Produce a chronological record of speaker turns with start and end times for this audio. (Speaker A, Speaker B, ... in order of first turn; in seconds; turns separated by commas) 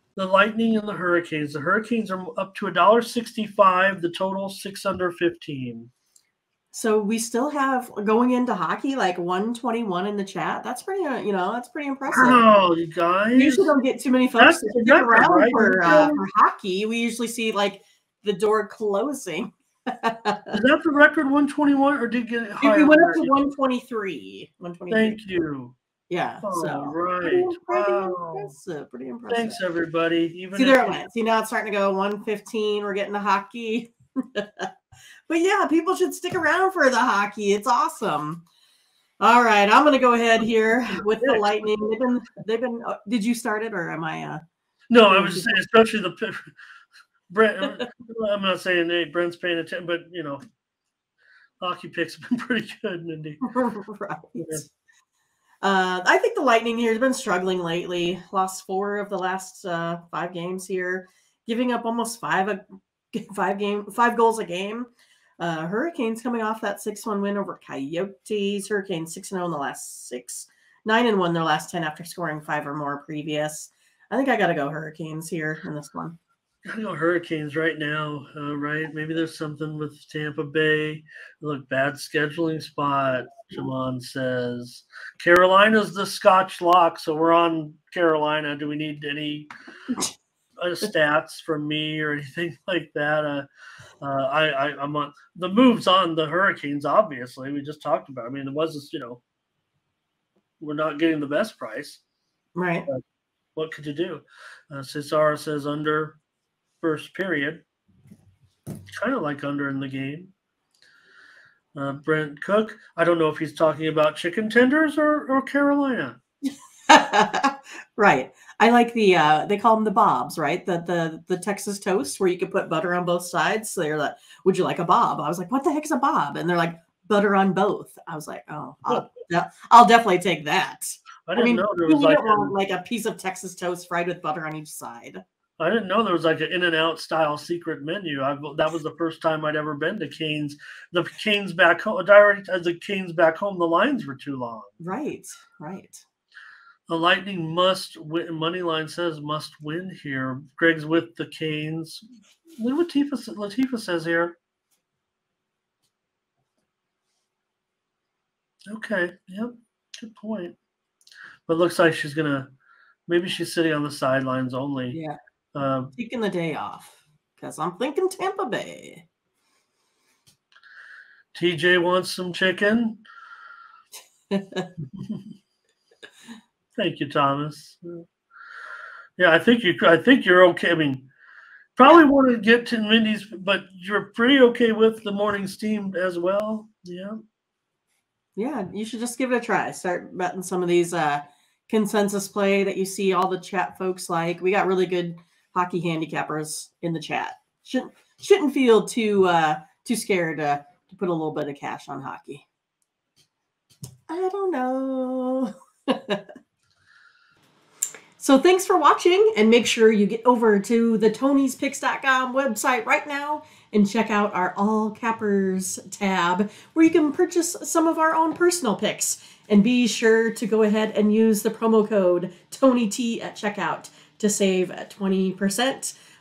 Speaker A: 0.1-5.9, Speaker B: 6.7-12.4, Speaker A: 12.1-13.7, Speaker B: 13.3-20.6, Speaker A: 14.4-16.2, Speaker A: 20.5-23.3, Speaker B: 22.6-25.2, Speaker A: 24.9-25.8, Speaker B: 26.1-29.6, Speaker A: 26.4-28.5, Speaker A: 29.3-31.0, Speaker B: 30.5-34.7, Speaker B: 35.3-38.4, Speaker B: 39.2-44.4, Speaker A: 41.2-41.5, Speaker A: 44.9-46.5, Speaker B: 45.0-45.6, Speaker A: 47.3-50.4, Speaker A: 51.6-53.4, Speaker B: 53.4-54.7, Speaker A: 54.4-54.6, Speaker B: 55.6-76.2, Speaker A: 76.7-89.5, Speaker A: 90.6-93.5, Speaker A: 94.0-99.2, Speaker A: 100.6-102.0, Speaker B: 102.5-102.9, Speaker A: 103.5-106.2, Speaker A: 106.8-107.6, Speaker A: 109.0-110.3, Speaker A: 111.7-116.2, Speaker B: 116.5-135.2, Speaker A: 131.3-132.5, Speaker A: 135.6-144.7, Speaker B: 144.8-146.0, Speaker A: 146.9-152.0, Speaker A: 152.6-154.3, Speaker A: 158.7-160.6, Speaker A: 161.5-162.5, Speaker A: 163.1-165.0, Speaker B: 164.9-165.2, Speaker A: 165.5-165.9, Speaker B: 165.9-169.0, Speaker A: 171.3-173.0, Speaker B: 174.3-174.7, Speaker A: 174.9-175.2, Speaker A: 176.8-178.0, Speaker A: 179.2-181.1, Speaker A: 181.8-187.2, Speaker B: 188.3-202.4, Speaker B: 204.1-206.2, Speaker B: 208.2-225.9